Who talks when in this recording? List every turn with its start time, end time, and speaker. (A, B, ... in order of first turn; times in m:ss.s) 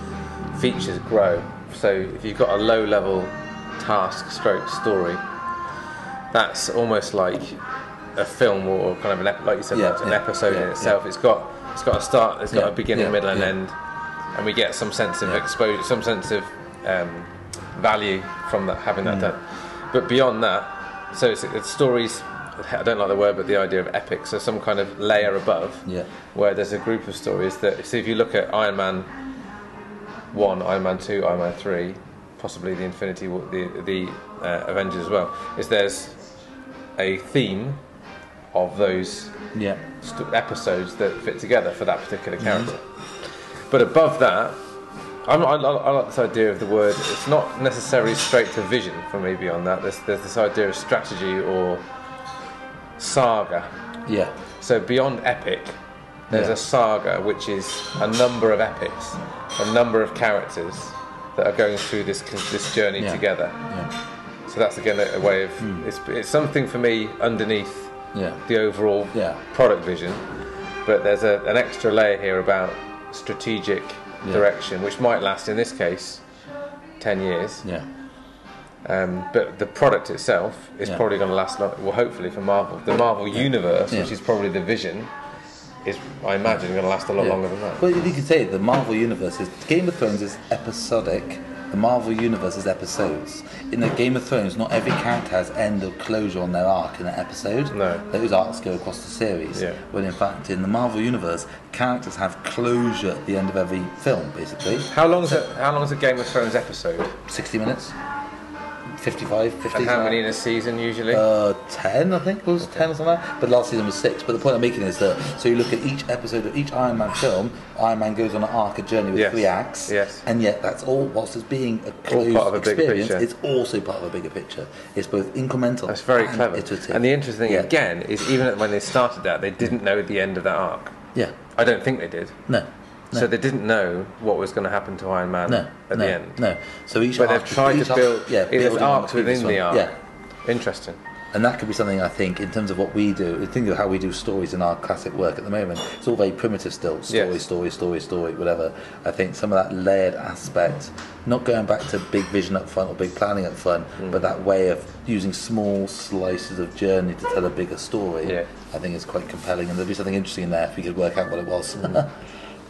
0:00.5-0:05.2 A
0:06.3-0:07.6 A
0:08.1-0:13.7 A
0:09.7-0:11.0 B
0:12.5-0:13.5 B
0:14.3-0:29.1 A
0:19.0-0:19.3 B
0:30.3-0:36.2 A
0:37.0-0:37.8 A
0:38.5-0:39.3 A
0:39.5-0:39.8 B
0:40.0-0:42.8 A
0:42.4-0:42.7 B
0:43.7-0:44.6 A
0:45.2-0:51.8 A
0:53.0-0:53.7 A
0:54.0-0:54.3 B
0:54.6-0:55.8 A
0:56.3-0:56.6 B
0:56.3-1:03.6 A
1:03.0-1:03.9 B
1:04.4-1:07.9 A
1:05.6-1:05.9 B
1:08.1-1:08.4 B
1:08.4-1:10.3 A
1:09.1-1:09.4 B
1:10.8-1:16.2 A
1:17.0-1:17.6 A
1:18.8-1:25.1 A
1:25.8-1:27.8 A
1:27.2-1:45.4 B
1:37.7-1:38.0 A
1:39.5-1:39.8 A
1:44.9-1:47.2 A
1:47.2-1:47.9 B
1:48.9-1:50.2 B
1:49.7-1:51.2 A
1:51.1-2:07.7 B
1:59.1-2:00.2 A
2:02.1-2:03.2 A
2:05.9-2:11.0 A
2:11.5-2:12.4 A
2:12.5-2:13.3 B
2:13.1-2:16.4 A
2:15.5-2:19.9 B
2:17.2-2:19.9 A
2:20.4-2:21.0 A
2:21.3-2:42.2 B
2:27.1-2:27.4 A
2:34.0-2:34.3 A